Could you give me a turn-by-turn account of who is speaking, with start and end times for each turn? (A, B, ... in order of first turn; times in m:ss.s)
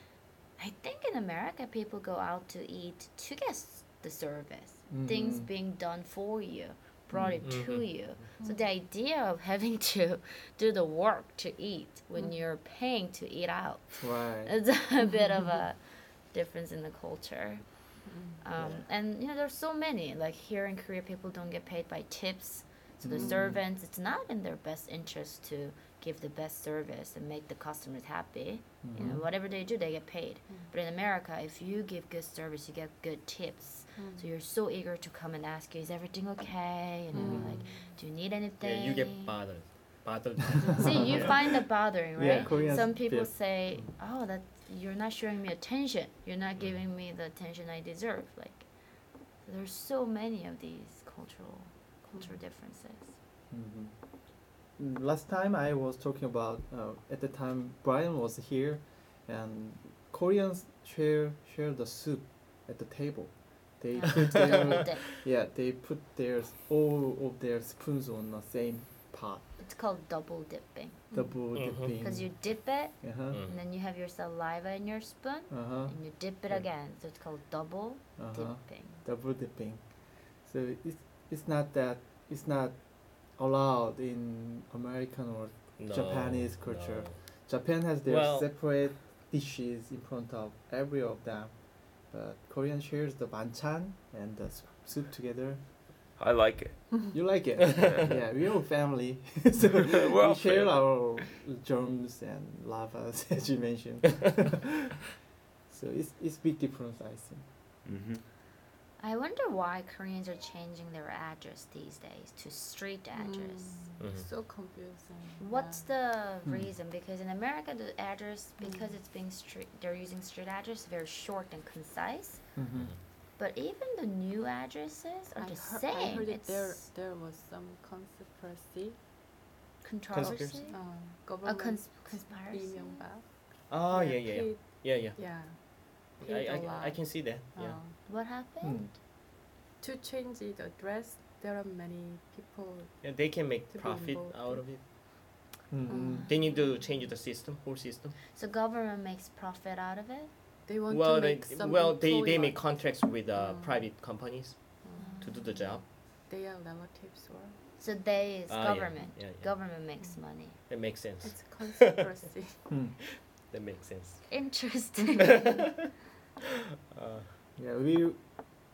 0:00.6-0:39.3 A
0:04.9-0:05.5 B
0:07.1-0:07.5 B
0:07.4-0:08.0 C
0:14.0-0:14.6 B
0:18.0-0:18.4 D
0:18.6-0:18.8 B
0:23.0-0:23.6 B
0:23.2-0:23.4 D
0:28.8-0:29.2 B
0:34.0-0:34.3 D
0:37.1-0:38.0 D
0:37.2-0:37.6 B
0:38.6-0:41.4 C
0:40.7-0:48.7 A
0:40.7-0:41.3 B
0:42.1-0:43.4 B
0:42.5-0:42.8 D
0:49.4-0:53.2 A
0:53.5-0:53.9 B
0:54.8-1:09.4 B
1:03.9-1:05.0 A
1:09.6-1:11.1 A
1:11.1-1:12.3 B
1:11.5-1:11.9 C
1:12.0-1:19.0 A
1:13.0-1:13.4 B
1:15.5-1:15.9 B
1:18.2-1:19.8 B
1:20.4-1:35.6 B
1:25.8-1:27.2 C
1:28.0-1:28.5 C
1:36.2-1:36.9 E
1:37.1-1:44.9 B
1:37.6-1:38.0 C
1:37.8-1:38.1 E
1:39.8-1:41.2 E
1:45.7-1:47.4 B
1:47.8-1:48.2 E
1:49.0-1:53.8 A
1:53.1-1:55.9 D
1:54.0-1:54.3 C
1:55.4-2:02.4 A
1:58.6-1:58.9 D
2:02.6-2:02.9 B
2:03.4-2:06.8 A
2:05.4-2:09.0 D
2:09.8-2:13.0 A
2:10.1-2:10.6 C
2:10.7-2:18.0 D
2:13.7-2:17.8 C
2:18.0-2:18.9 A
2:18.6-2:18.9 B
2:19.8-2:24.7 D
2:23.0-2:24.8 C
2:25.7-2:26.3 B
2:25.9-2:26.3 D
2:26.2-2:28.1 C
2:28.3-2:30.3 A
2:30.6-2:33.9 D
2:30.9-2:35.8 C
2:34.8-2:35.2 D
2:35.0-2:35.8 A
2:36.2-2:37.6 D
2:37.8-2:40.6 A
2:38.5-2:39.5 C
2:40.7-2:42.1 C
2:41.2-2:42.7 D
2:42.7-2:43.0 B
2:43.5-2:44.3 C
2:44.3-2:45.6 A
2:45.2-2:45.7 C
2:46.9-2:47.3 C
2:47.6-2:48.2 B